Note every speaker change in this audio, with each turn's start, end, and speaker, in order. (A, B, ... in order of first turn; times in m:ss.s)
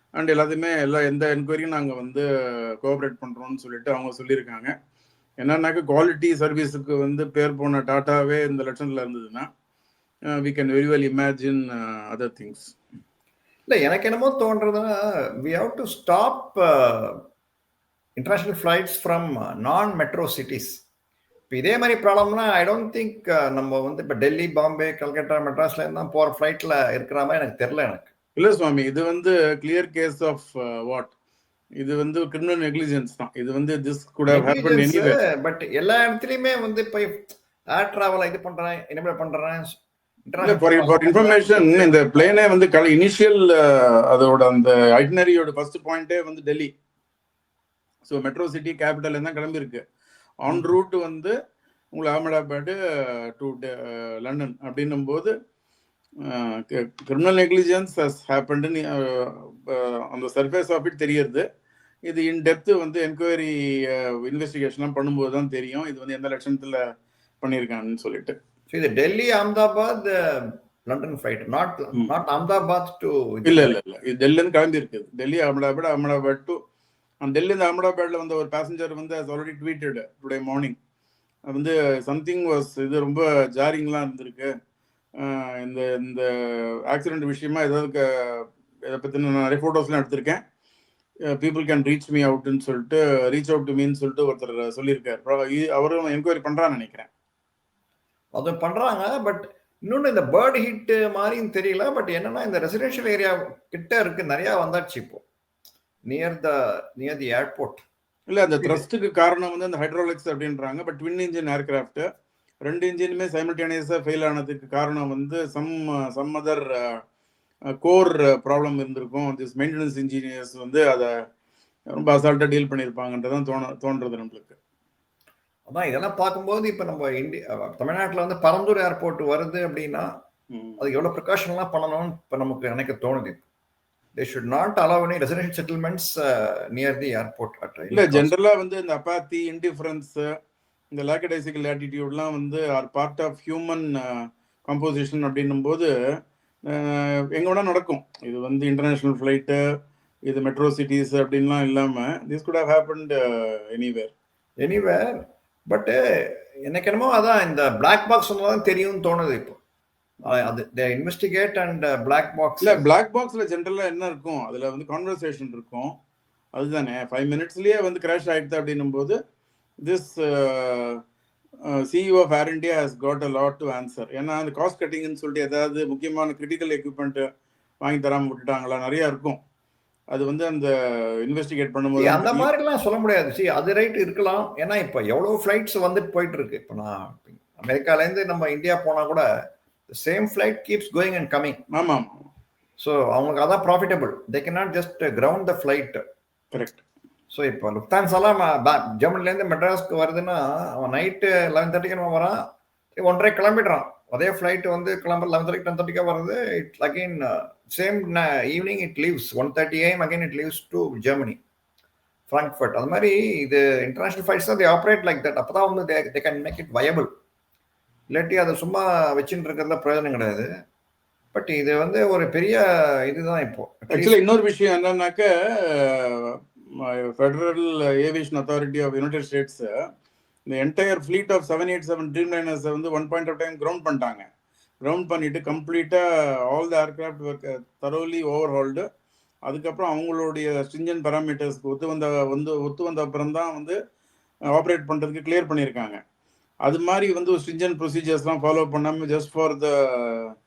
0:00.2-0:04.7 A
0:05.4-0:09.5 A
0:10.3-0:12.7 A
0:13.7-0:17.2 B
0:18.2-0:20.8 B
0:21.5-0:28.1 B
0:28.4-0:31.1 A
0:31.8-0:35.2 A
0:34.3-0:39.8 B
0:40.3-0:42.2 B
0:40.4-0:46.7 A
0:48.0-0:49.8 A
0:50.5-0:51.3 A
0:50.5-0:50.7 B
0:51.9-0:55.3 A
0:56.2-1:01.4 A
1:02.1-1:06.8 A
1:07.4-1:08.4 A
1:08.7-1:13.8 B
1:13.4-1:16.6 A
1:17.2-1:20.8 A
1:21.5-1:24.5 A
1:25.2-1:30.4 A
1:31.4-1:37.1 A
1:38.4-1:45.2 B
1:46.1-1:47.8 B
1:48.3-1:52.1 A
1:48.6-1:48.8 B
1:52.6-1:57.0 A
1:57.8-2:01.1 A
2:02.0-2:04.6 A
2:05.7-2:10.1 B
2:10.5-2:10.8 A
2:10.8-2:13.4 B
2:14.2-2:18.3 B
2:17.9-2:20.2 A
2:20.9-2:25.9 A
2:26.7-2:29.6 A
2:30.3-2:34.1 A
2:34.6-2:39.6 B
2:40.2-2:42.8 B
2:42.6-2:45.9 A
2:46.6-2:49.2 A
2:49.8-2:51.0 A
2:51.7-2:57.3 A
2:57.8-2:59.4 A
3:00.1-3:00.7 A
3:01.2-3:02.5 A
3:02.0-3:09.3 B
3:09.9-3:11.6 B
3:11.7-3:12.3 A
3:12.8-3:16.0 B
3:16.5-3:16.8 A
3:17.3-3:22.4 B
3:23.0-3:31.4 B
3:32.3-3:37.1 B
3:38.1-3:40.5 B
3:41.3-3:44.2 B
3:43.9-3:49.7 A
3:50.5-3:54.2 A
3:54.8-3:58.9 A
3:59.5-4:03.8 A
4:04.5-4:06.0 A
4:06.6-4:10.3 A